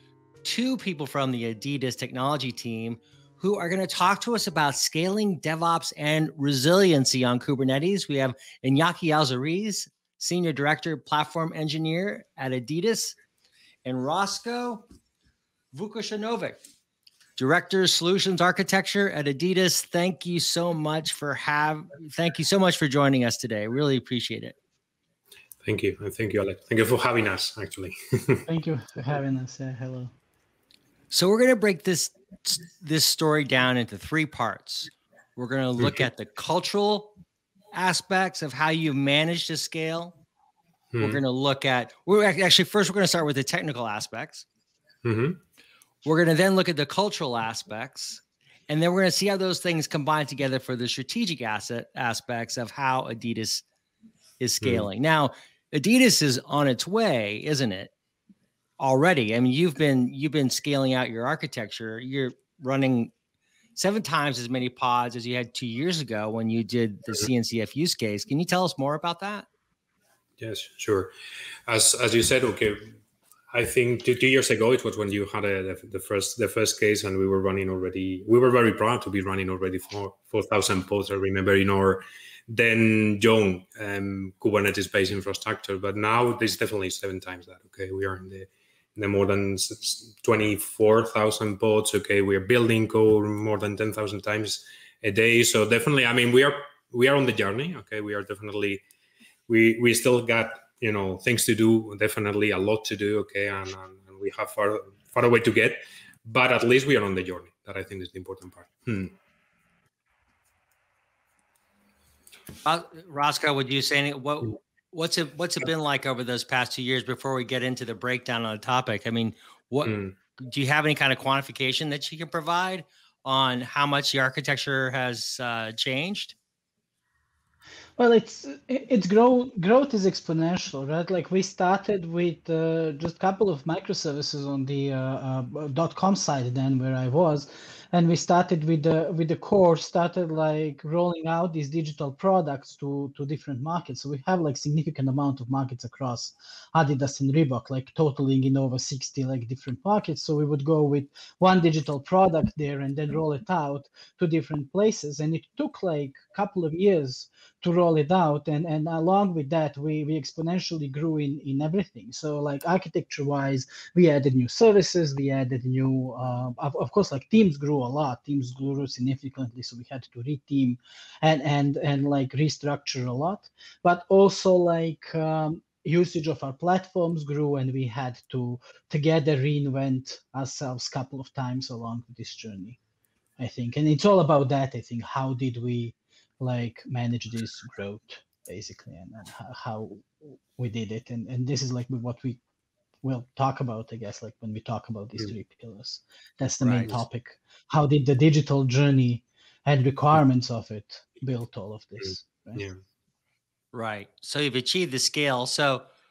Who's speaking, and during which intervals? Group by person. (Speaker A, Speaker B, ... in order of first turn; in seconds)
Speaker A: 0.4-13.2, 13.8-14.9, 15.7-16.6, 17.4-24.6, 31.1-37.1, 37.7-40.2, 41.0-44.5, 46.0-53.6, 54.4-57.9, 58.8-63.1, 63.8-69.5, 112.7-126.3, 196.6-197.0, 203.7-205.9
Speaker B: 25.6-28.4, 40.9-41.2, 45.0-45.4, 54.6-54.9, 70.4-71.1, 71.7-73.0, 73.5-98.8, 99.5-109.2, 119.8-120.1
Speaker C: 28.5-30.1, 128.0-182.8, 183.4-192.4, 193.0-202.6